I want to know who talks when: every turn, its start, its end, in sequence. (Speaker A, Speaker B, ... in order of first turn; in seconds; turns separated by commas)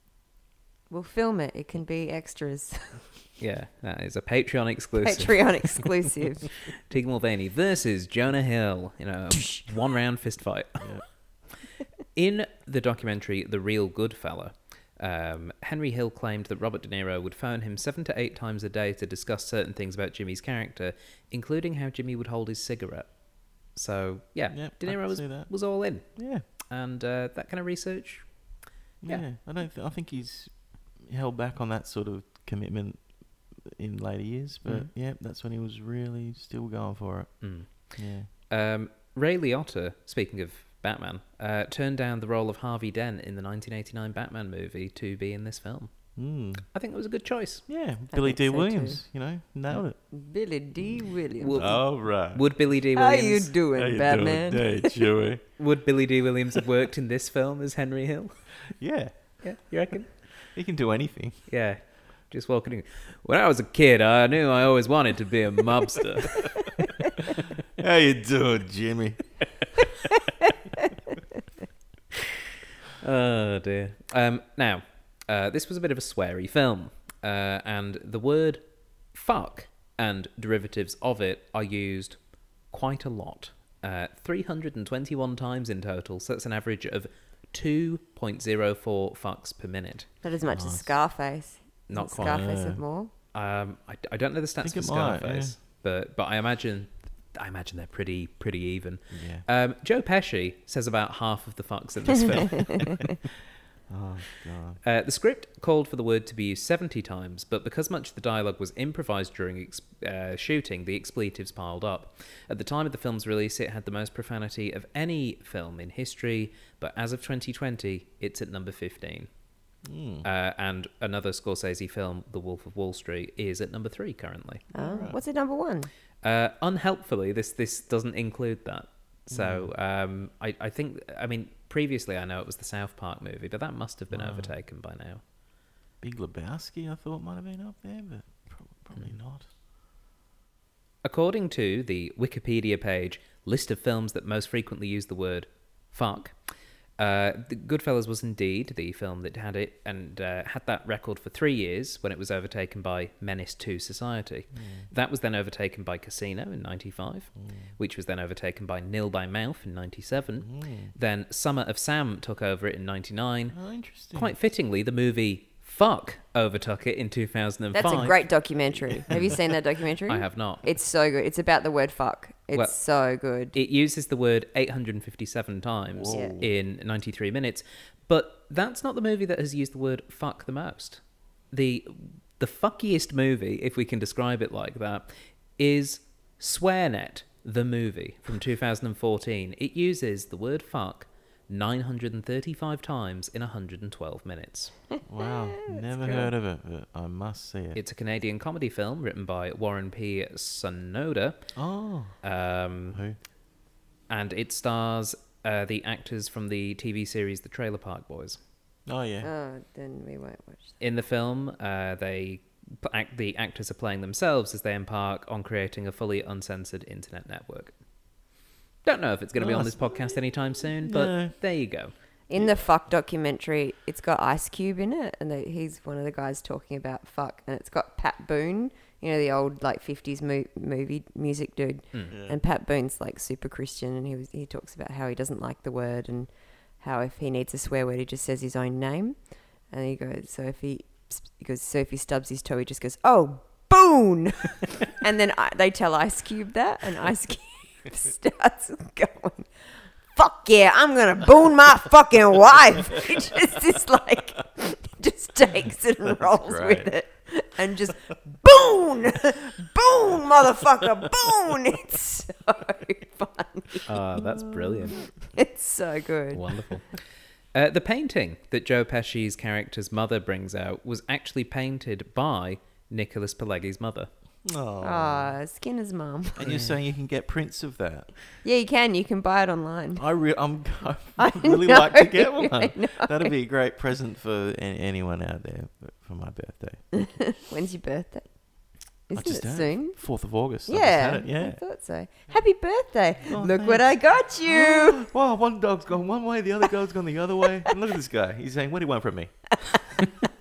Speaker A: 0.9-3.2, Speaker B: 3.4-5.5, Speaker A: 5.0-6.6, Speaker B: 6.8-11.4, Speaker C: 10.8-11.1, Speaker B: 12.1-29.3, Speaker C: 24.5-26.4, Speaker C: 29.0-38.3, Speaker B: 34.6-34.9, Speaker B: 37.4-47.7, Speaker C: 46.1-46.7, Speaker C: 47.7-50.0, Speaker A: 48.1-49.0, Speaker A: 50.1-51.7, Speaker B: 51.4-53.5, Speaker C: 51.5-52.5, Speaker A: 52.9-55.0, Speaker C: 53.7-55.5, Speaker B: 55.6-58.7, Speaker C: 58.7-59.5, Speaker B: 59.4-60.5, Speaker C: 60.5-61.5, Speaker B: 61.5-66.8, Speaker C: 67.8-69.8, Speaker B: 73.0-90.1, Speaker A: 90.2-93.1, Speaker C: 90.5-91.0, Speaker B: 91.9-92.5, Speaker C: 92.1-92.8, Speaker B: 93.3-103.0, Speaker C: 94.6-95.6, Speaker C: 99.1-99.5, Speaker C: 103.9-104.8, Speaker B: 104.8-119.4, Speaker C: 119.8-120.2, Speaker B: 120.2-124.7, Speaker A: 124.7-125.9, Speaker C: 124.7-125.2, Speaker B: 126.2-135.2, Speaker C: 129.3-129.7, Speaker C: 134.1-134.6, Speaker C: 136.0-139.5, Speaker B: 141.0-168.3, Speaker C: 154.5-154.9, Speaker C: 157.3-157.7, Speaker C: 160.4-160.9, Speaker C: 163.5-164.3, Speaker A: 167.7-173.5, Speaker C: 169.1-169.4, Speaker B: 170.1-170.7, Speaker B: 172.5-172.8, Speaker B: 173.5-194.8, Speaker C: 175.9-176.5, Speaker A: 176.1-176.4, Speaker C: 195.0-197.8, Speaker A: 195.2-196.3, Speaker B: 197.7-201.6, Speaker C: 201.5-202.2, Speaker B: 202.2-203.0, Speaker C: 202.9-203.2, Speaker B: 204.1-208.4, Speaker C: 208.8-209.3, Speaker A: 209.2-210.7, Speaker B: 210.8-217.8, Speaker B: 218.8-221.9, Speaker C: 219.4-219.8, Speaker C: 220.8-221.4, Speaker A: 222.3-249.5, Speaker C: 222.3-222.7, Speaker C: 232.1-232.4, Speaker A: 250.0-263.9, Speaker C: 256.1-256.9, Speaker B: 263.9-265.1, Speaker A: 265.2-266.6, Speaker B: 266.3-274.1, Speaker C: 274.4-275.4, Speaker A: 274.8-276.5, Speaker C: 276.4-278.2, Speaker B: 276.4-276.8, Speaker A: 278.4-280.0, Speaker C: 279.9-287.1, Speaker A: 281.2-283.3, Speaker A: 286.9-295.1, Speaker C: 289.1-291.6, Speaker C: 293.3-299.9